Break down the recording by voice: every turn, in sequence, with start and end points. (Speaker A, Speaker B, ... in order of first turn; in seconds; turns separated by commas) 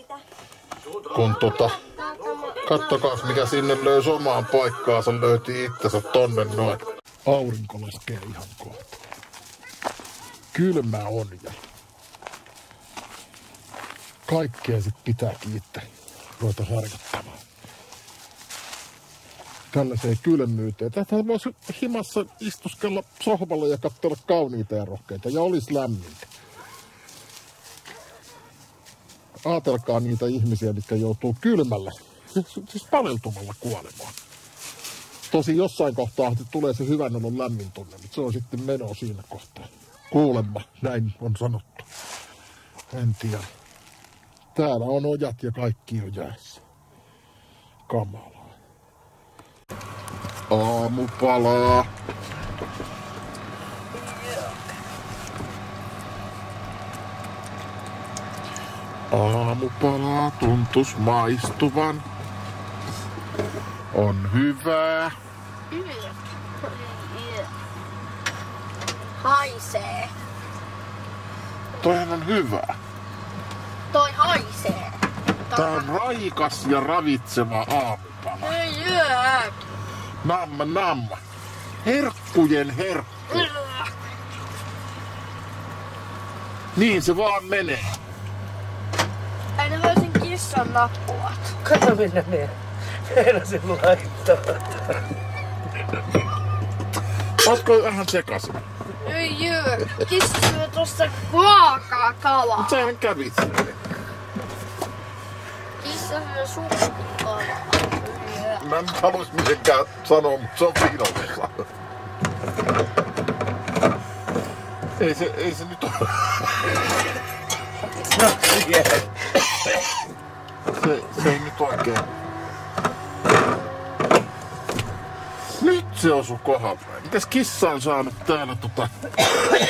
Speaker A: 1.1-1.8, Speaker A: 2.6-9.0, Speaker A: 10.5-11.6, Speaker A: 14.3-15.9, Speaker A: 16.4-17.4, Speaker A: 19.7-26.3, Speaker A: 29.4-34.1, Speaker A: 35.3-41.9, Speaker A: 42.9-43.5, Speaker A: 44.5-46.6, Speaker A: 47.9-48.6, Speaker A: 50.5-51.9, Speaker A: 59.1-62.0, Speaker A: 63.9-65.1, Speaker B: 65.7-67.5, Speaker B: 69.2-70.1, Speaker A: 71.8-72.8, Speaker B: 73.9-75.9, Speaker A: 75.5-78.6, Speaker B: 78.4-79.6, Speaker A: 80.2-81.2, Speaker A: 81.8-83.5, Speaker B: 83.4-83.8, Speaker A: 86.8-87.9, Speaker B: 89.6-91.5, Speaker C: 91.6-95.0, Speaker A: 97.4-98.6, Speaker B: 99.0-102.9, Speaker A: 102.5-103.8, Speaker B: 105.8-108.6, Speaker A: 108.5-111.6, Speaker A: 115.0-116.4, Speaker C: 118.0-119.1, Speaker A: 120.7-122.1, Speaker A: 125.6-129.0